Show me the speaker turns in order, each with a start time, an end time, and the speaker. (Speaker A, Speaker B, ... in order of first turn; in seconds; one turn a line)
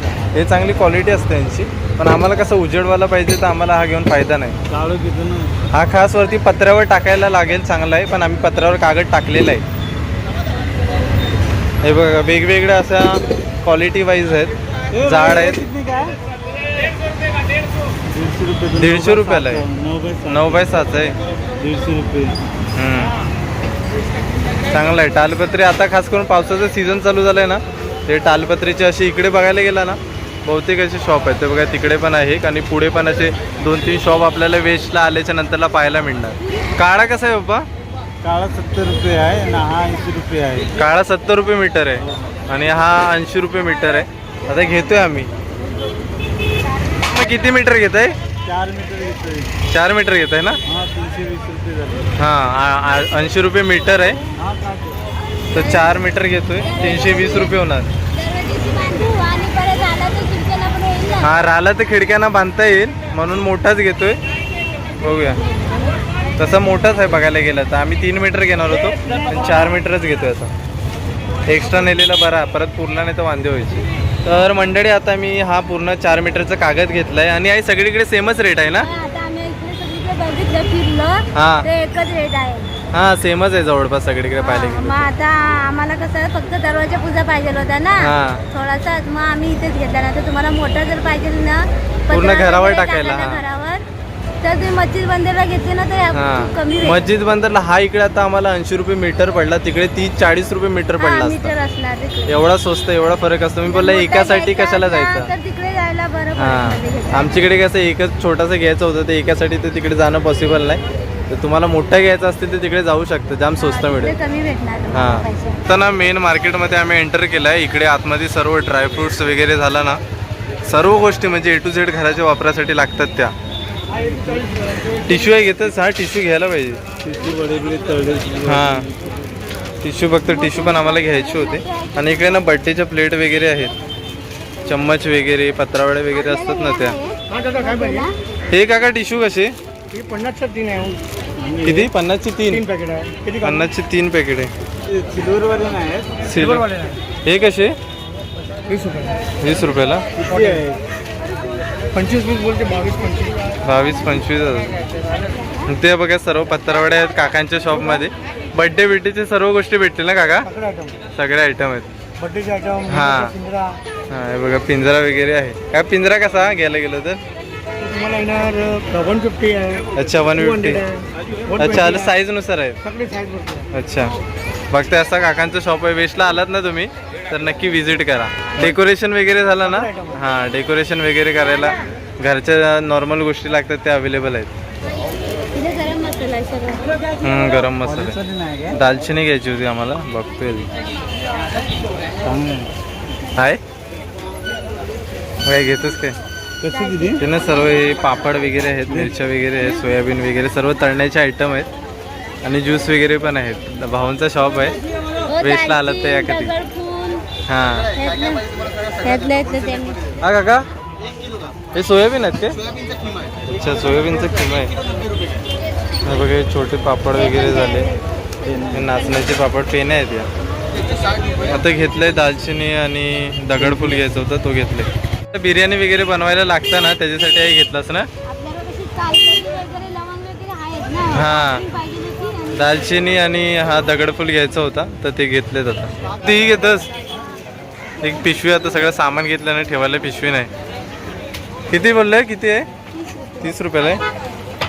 Speaker A: 0.3-4.5
Speaker B: 4.7-5.5
Speaker A: 5.7-9.6
Speaker A: 11.8-15.6
Speaker B: 14.9-16.1
Speaker B: 18.1-20.8
Speaker A: 18.8-19.6
Speaker A: 20.3-21.1
Speaker B: 21.6-22.4
Speaker A: 22.8-23.1
Speaker A: 24.7-37.6
Speaker B: 38.2-40.7
Speaker A: 40.8-45.3
Speaker A: 47.0-48.1
Speaker B: 48.4-49.5
Speaker A: 49.7-50.6
Speaker B: 50.6-52.1
Speaker A: 52.2-54.2
Speaker B: 54.4-55.0
Speaker C: 55.5-56.0
Speaker A: 55.5-57.9
Speaker C: 56.5-61.3
Speaker A: 61.2-64.2
Speaker A: 65.0-65.4
Speaker A: 66.4-70.5
Speaker A: 71.5-78.9
Speaker C: 78.8-82.7
Speaker A: 81.3-81.7
Speaker A: 82.9-85.1
Speaker C: 84.4-93.8
Speaker A: 88.0-88.4
Speaker A: 92.1-93.4
Speaker C: 94.4-97.0
Speaker A: 96.1-101.5
Speaker C: 101.0-102.4
Speaker A: 102.3-105.3
Speaker C: 103.6-107.4
Speaker A: 106.4-114.1
Speaker C: 113.6-115.6
Speaker A: 114.9-120.0
Speaker A: 120.7-123.3
Speaker A: 125.0-126.8
Speaker B: 127.0-129.2
Speaker A: 128.4-128.9
Speaker A: 129.8-133.7
Speaker C: 130.2-132.5
Speaker A: 134.6-136.9
Speaker C: 136.1-138.1
Speaker D: 137.6-138.1
Speaker A: 138.5-139.5
Speaker D: 139.9-141.0
Speaker B: 141.4-141.9
Speaker A: 141.6-142.6
Speaker D: 142.5-143.6
Speaker A: 143.4-144.5
Speaker B: 144.8-146.3
Speaker A: 146.2-146.7
Speaker D: 146.6-147.0
Speaker A: 147.2-147.7
Speaker D: 148.7-149.2
Speaker A: 149.4-150.0
Speaker B: 150.2-150.8
Speaker D: 151.9-153.4
Speaker A: 153.6-154.8
Speaker C: 155.3-155.7
Speaker A: 155.6-160.5
Speaker D: 160.5-160.9
Speaker A: 161.1-161.9
Speaker D: 162.2-163.8
Speaker A: 162.9-163.3
Speaker A: 164.1-167.2
Speaker D: 167.8-169.9
Speaker A: 169.9-170.8
Speaker D: 170.4-172.1
Speaker A: 171.6-172.8
Speaker D: 172.8-173.7
Speaker A: 173.7-174.2
Speaker A: 174.7-184.5
Speaker D: 179.7-180.1
Speaker C: 185.5-186.8
Speaker A: 187.2-188.2
Speaker B: 187.8-188.8
Speaker A: 188.7-190.7
Speaker B: 192.2-192.7
Speaker A: 195.4-196.1
Speaker B: 196.6-197.2
Speaker A: 197.2-201.7
Speaker A: 202.4-204.8
Speaker C: 205.3-207.2
Speaker A: 205.4-206.5
Speaker A: 207.5-207.9
Speaker C: 207.9-208.5
Speaker C: 209.0-210.1
Speaker A: 210.2-210.6
Speaker A: 211.7-212.5
Speaker A: 213.5-214.7
Speaker A: 216.0-217.9
Speaker C: 217.1-219.3
Speaker B: 218.4-219.0
Speaker A: 218.7-220.3
Speaker C: 220.7-221.5
Speaker A: 221.5-228.1
Speaker B: 223.6-224.0
Speaker C: 228.2-233.1
Speaker A: 231.1-231.7
Speaker A: 232.5-236.9
Speaker A: 238.0-240.5
Speaker A: 241.7-242.7
Speaker A: 243.4-244.0